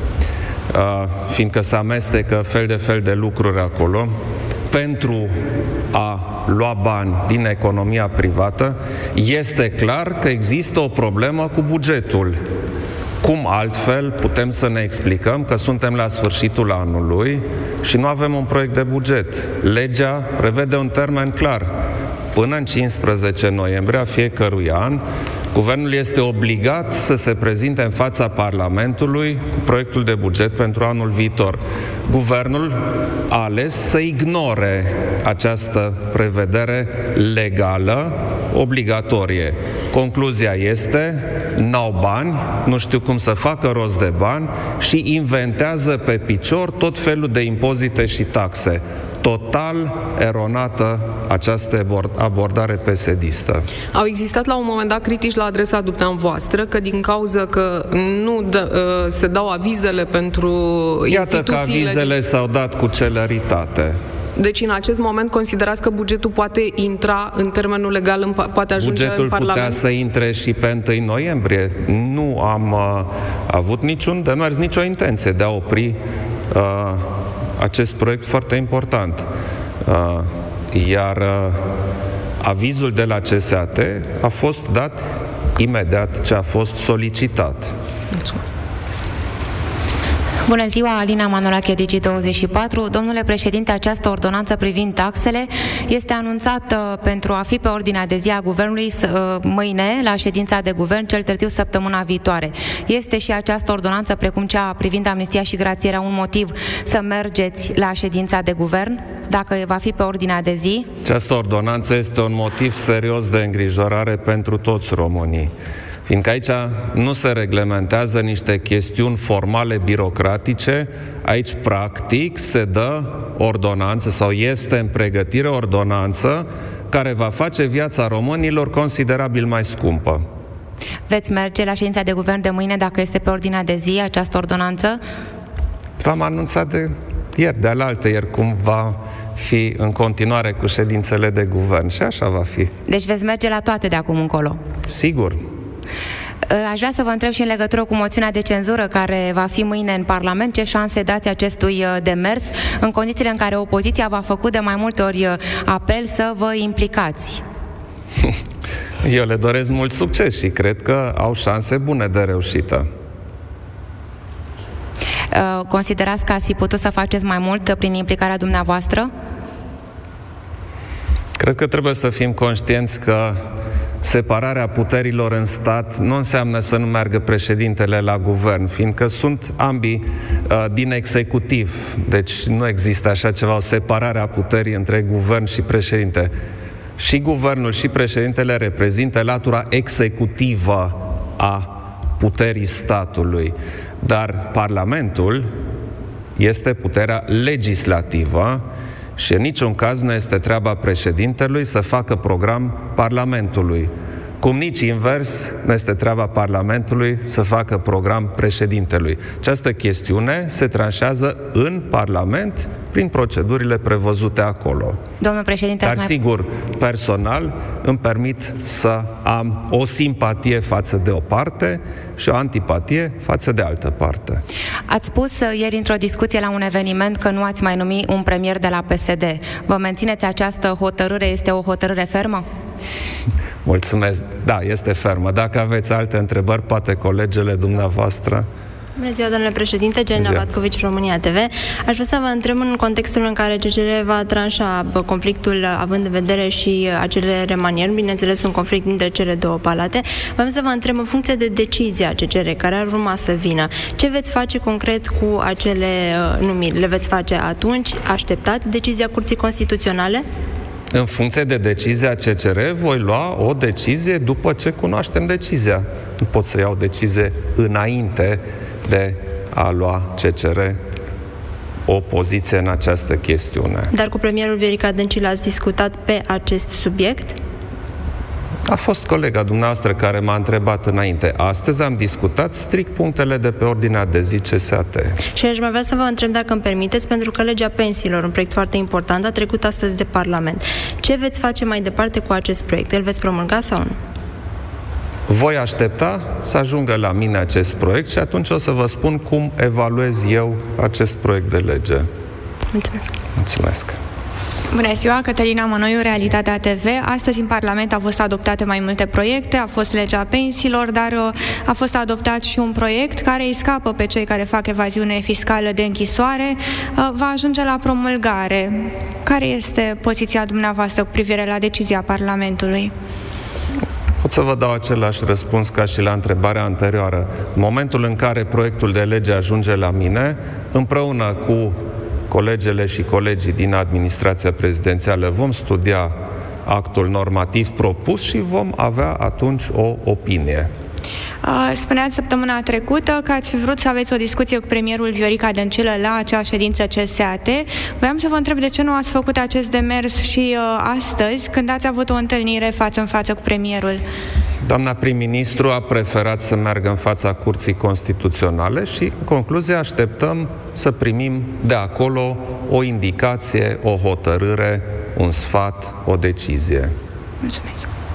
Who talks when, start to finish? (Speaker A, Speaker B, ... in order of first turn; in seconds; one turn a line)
Speaker A: 0.7-4.1
Speaker A: 4.7-12.4
Speaker A: 13.2-21.8
Speaker A: 22.3-53.7
Speaker B: 53.9-62.2
Speaker A: 61.1-64.0
Speaker B: 64.4-69.8
Speaker A: 68.7-76.0
Speaker A: 76.5-79.3
Speaker A: 79.8-81.6
Speaker A: 82.4-87.7
Speaker C: 90.5-110.9
Speaker A: 111.0-115.5
Speaker A: 116.1-130.2
Speaker C: 131.1-135.0
Speaker A: 136.0-142.7
Speaker C: 142.9-144.6
Speaker A: 144.9-145.4
Speaker C: 146.5-157.4
Speaker A: 159.0-162.9
Speaker C: 165.3-169.1
Speaker A: 171.3-173.4
Speaker A: 174.0-186.3
Speaker A: 187.0-195.5
Speaker A: 196.3-198.7
Speaker A: 199.2-215.0
Speaker C: 215.2-216.1
Speaker A: 215.8-224.4
Speaker C: 224.9-232.4
Speaker A: 233.6-238.5
Speaker D: 239.0-260.2
Speaker A: 240.1-240.5
Speaker A: 260.9-270.8
Speaker A: 271.9-273.9
Speaker D: 273.9-277.4
Speaker A: 278.7-285.2
Speaker D: 285.3-294.0
Speaker A: 295.3-302.1
Speaker D: 302.7-303.1
Speaker A: 303.4-304.0
Speaker E: 304.7-322.9
Speaker A: 324.2-340.7
Speaker E: 341.4-354.0
Speaker A: 354.6-366.9